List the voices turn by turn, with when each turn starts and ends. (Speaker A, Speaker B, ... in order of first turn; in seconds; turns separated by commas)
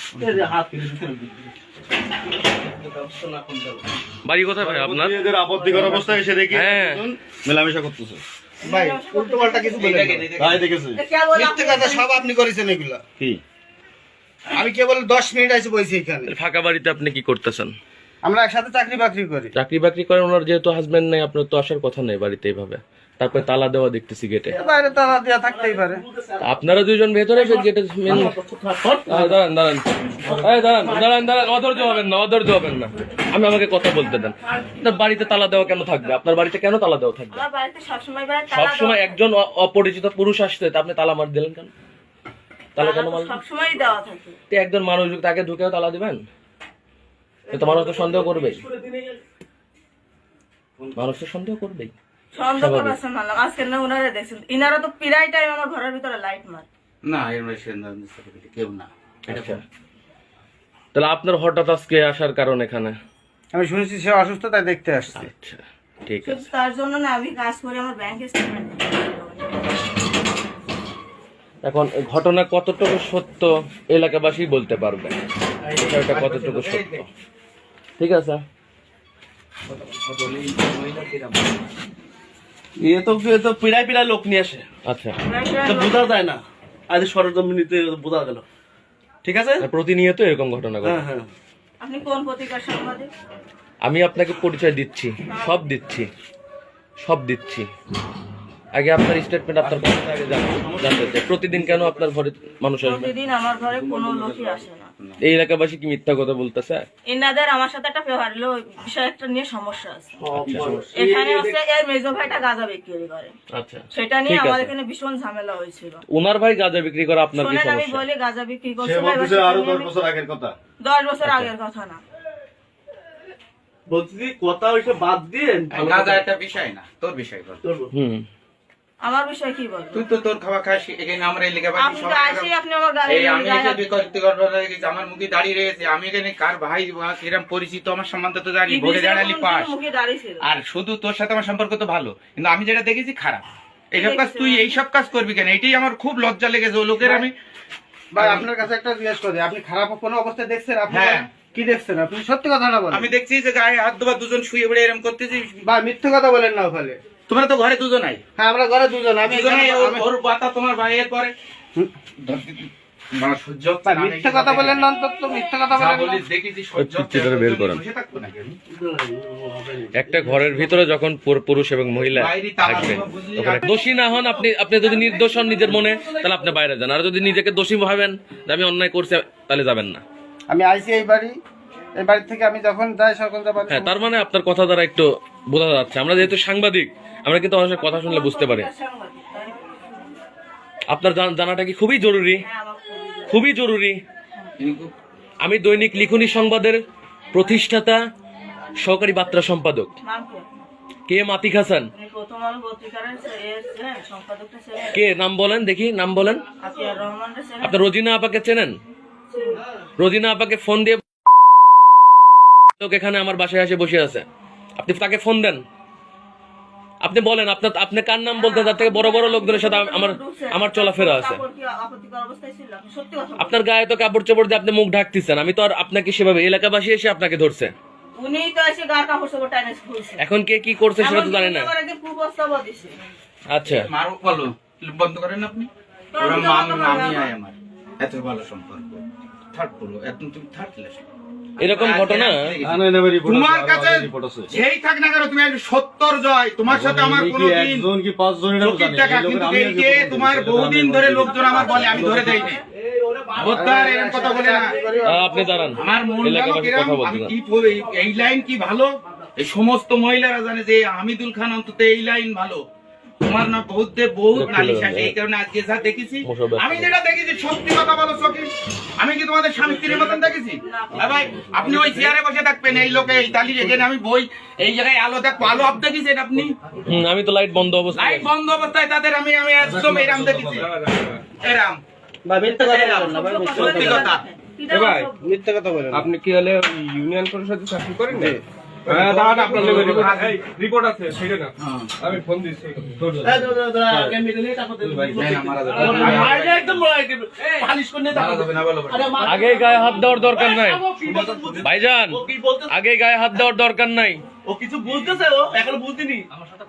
Speaker A: 0.2-1.5, Speaker A: 2.7-3.8, Speaker B: 4.2-5.2, Speaker C: 4.6-8.2, Speaker A: 5.7-6.1, Speaker B: 6.5-7.0, Speaker D: 8.6-10.0, Speaker E: 8.7-10.2, Speaker F: 9.7-10.7, Speaker C: 10.4-11.0, Speaker D: 11.0-12.3, Speaker E: 11.3-13.0, Speaker E: 14.5-16.3, Speaker B: 16.3-17.7, Speaker E: 18.2-19.5, Speaker B: 19.6-24.6, Speaker A: 24.5-26.6, Speaker E: 24.6-26.0, Speaker B: 26.4-28.3, Speaker A: 27.3-29.4, Speaker B: 29.1-37.4, Speaker A: 30.2-31.2, Speaker D: 37.3-39.2, Speaker B: 38.5-41.7, Speaker B: 42.7-43.4, Speaker D: 42.8-44.4, Speaker B: 44.5-46.2, Speaker A: 47.5-49.2, Speaker B: 47.5-48.6, Speaker B: 51.0-51.9, Speaker D: 52.3-56.7, Speaker B: 52.6-53.0, Speaker F: 57.0-59.6, Speaker B: 59.3-59.6, Speaker B: 60.9-63.0, Speaker E: 63.5-65.3, Speaker B: 65.1-66.4, Speaker D: 66.2-69.8, Speaker B: 71.6-75.2, Speaker F: 75.7-77.0, Speaker B: 75.8-77.0, Speaker B: 78.0-78.4, Speaker F: 79.8-81.4, Speaker A: 82.8-84.6, Speaker B: 84.8-85.2, Speaker D: 85.2-86.1, Speaker A: 85.6-88.4, Speaker A: 89.2-89.6, Speaker B: 89.6-91.0, Speaker A: 90.8-91.3, Speaker D: 91.8-93.1, Speaker B: 93.8-96.1, Speaker D: 95.3-95.6, Speaker B: 97.0-97.7, Speaker B: 98.8-103.1, Speaker A: 100.6-101.2, Speaker D: 102.8-104.9, Speaker F: 103.8-105.2, Speaker B: 105.2-106.9, Speaker D: 107.0-110.3, Speaker A: 110.2-111.5, Speaker B: 110.4-110.8, Speaker D: 110.9-113.3, Speaker B: 113.5-114.7, Speaker D: 113.9-116.0, Speaker B: 116.1-118.0, Speaker D: 117.3-119.9, Speaker C: 118.8-120.5, Speaker D: 120.8-122.0, Speaker A: 123.9-126.2, Speaker F: 125.7-127.6, Speaker A: 127.6-127.9, Speaker B: 127.9-128.3, Speaker D: 129.0-130.1, Speaker F: 129.9-132.5, Speaker D: 131.8-133.8, Speaker F: 133.1-139.7, Speaker D: 138.7-140.4, Speaker F: 140.4-147.3, Speaker D: 143.9-144.8, Speaker E: 147.0-147.3, Speaker E: 148.1-153.1, Speaker F: 148.2-148.5, Speaker F: 150.9-151.3, Speaker F: 152.9-155.6, Speaker E: 155.7-157.0, Speaker F: 157.3-158.2, Speaker E: 158.4-160.1, Speaker F: 159.2-161.3, Speaker F: 162.2-164.8, Speaker E: 163.8-166.2, Speaker F: 165.7-168.6, Speaker B: 166.8-167.8, Speaker A: 168.7-170.8, Speaker B: 169.9-180.0, Speaker F: 172.2-173.8, Speaker A: 175.0-176.2, Speaker E: 180.5-181.3, Speaker E: 182.0-184.0, Speaker B: 183.7-188.7, Speaker D: 187.8-189.9, Speaker B: 190.9-192.4, Speaker D: 192.4-193.4, Speaker B: 193.3-194.0, Speaker F: 194.6-194.9, Speaker B: 195.4-196.8, Speaker B: 197.3-198.0, Speaker B: 198.8-199.9, Speaker D: 200.0-200.6, Speaker B: 201.1-201.9, Speaker D: 201.9-205.0, Speaker B: 204.9-206.4, Speaker D: 206.6-207.9, Speaker B: 207.6-208.8, Speaker D: 209.3-209.6, Speaker B: 210.0-211.0, Speaker B: 212.8-214.2, Speaker B: 214.8-215.6, Speaker B: 217.0-221.4, Speaker D: 218.3-223.6, Speaker B: 223.4-227.7, Speaker D: 228.2-230.2, Speaker B: 230.2-231.7, Speaker D: 231.0-233.0, Speaker B: 233.5-233.9, Speaker F: 233.7-241.0, Speaker D: 236.1-237.3, Speaker B: 241.6-242.5, Speaker F: 241.6-247.9, Speaker C: 242.6-244.5, Speaker C: 246.7-252.5, Speaker F: 248.6-252.6, Speaker A: 251.3-255.7, Speaker D: 251.5-252.6, Speaker F: 253.4-254.8, Speaker E: 253.5-255.2, Speaker B: 255.0-257.3, Speaker F: 255.8-262.6, Speaker F: 263.2-276.6, Speaker B: 264.3-265.1, Speaker B: 266.2-266.9, Speaker D: 270.6-271.8, Speaker B: 276.9-278.3, Speaker F: 277.9-280.8, Speaker C: 279.6-280.7, Speaker F: 281.3-281.8, Speaker E: 282.2-283.9, Speaker D: 282.5-285.1, Speaker F: 282.9-284.2, Speaker G: 284.8-285.0, Speaker E: 285.2-286.1, Speaker G: 286.0-288.2, Speaker F: 288.9-290.4, Speaker C: 289.5-290.0, Speaker G: 289.8-291.5, Speaker F: 291.6-291.9, Speaker G: 292.0-293.1, Speaker A: 293.2-302.7, Speaker F: 295.0-296.8, Speaker F: 298.1-299.3, Speaker B: 299.2-300.9, Speaker C: 301.1-301.5, Speaker B: 301.6-304.2, Speaker A: 304.4-306.2